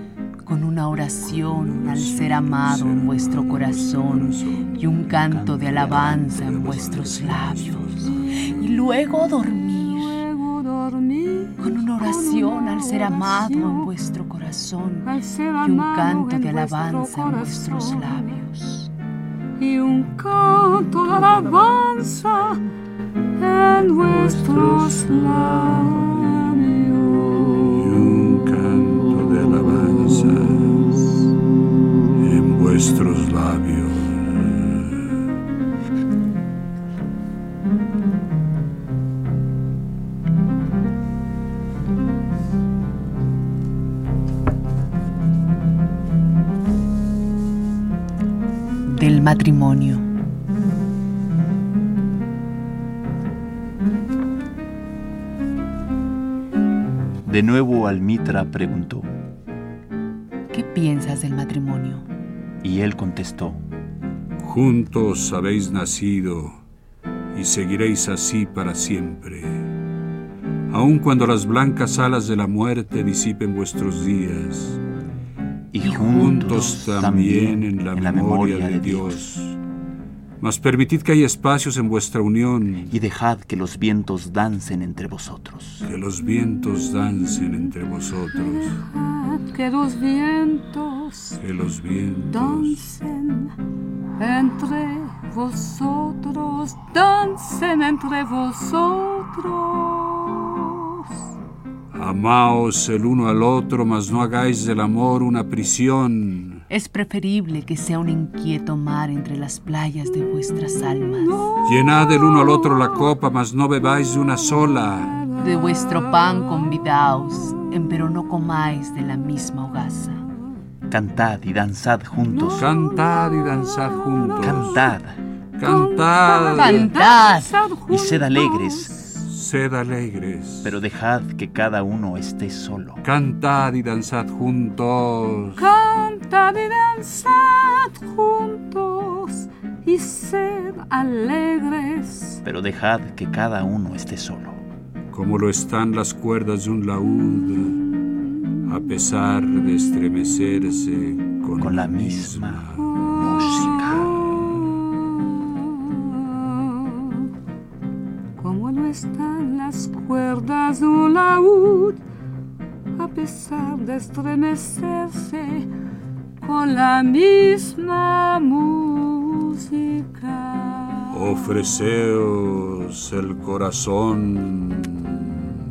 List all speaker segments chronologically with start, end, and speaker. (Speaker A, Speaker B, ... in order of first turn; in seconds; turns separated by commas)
Speaker A: 0.4-10.2, Speaker B: 1.2-4.8, Speaker C: 5.1-8.0, Speaker B: 5.8-8.7, Speaker D: 9.9-13.9, Speaker A: 11.6-15.1, Speaker D: 15.0-18.3, Speaker A: 15.6-18.9, Speaker D: 19.6-22.6, Speaker D: 23.4-27.7, Speaker B: 27.7-31.0, Speaker B: 32.1-35.1, Speaker A: 48.9-50.0, Speaker C: 57.2-59.1, Speaker A: 60.5-62.0, Speaker C: 62.6-63.6, Speaker B: 64.4-66.6, Speaker B: 67.3-69.7, Speaker B: 70.7-74.8, Speaker C: 75.7-79.3, Speaker A: 75.8-76.8, Speaker B: 75.9-79.6, Speaker B: 80.4-82.9, Speaker C: 82.9-85.8, Speaker B: 85.8-88.8, Speaker D: 88.7-91.4, Speaker B: 91.4-92.8, Speaker D: 92.3-93.5, Speaker D: 94.2-101.1, Speaker B: 101.9-106.6, Speaker A: 106.7-111.4, Speaker D: 111.5-112.9, Speaker B: 111.6-115.2, Speaker A: 115.4-120.2, Speaker C: 120.9-122.7, Speaker D: 122.5-123.1, Speaker B: 122.6-124.9, Speaker C: 124.4-125.2, Speaker B: 125.6-126.9, Speaker D: 125.6-129.0, Speaker A: 126.5-127.5, Speaker C: 127.9-129.0, Speaker B: 129.2-130.7, Speaker C: 130.6-133.0, Speaker B: 133.0-135.7, Speaker D: 135.6-142.4, Speaker C: 142.4-144.6, Speaker B: 145.1-147.8, Speaker B: 148.6-154.7, Speaker C: 151.6-154.2, Speaker D: 153.1-157.3, Speaker D: 158.4-162.0, Speaker D: 162.9-165.7, Speaker D: 166.4-171.6, Speaker B: 171.1-175.5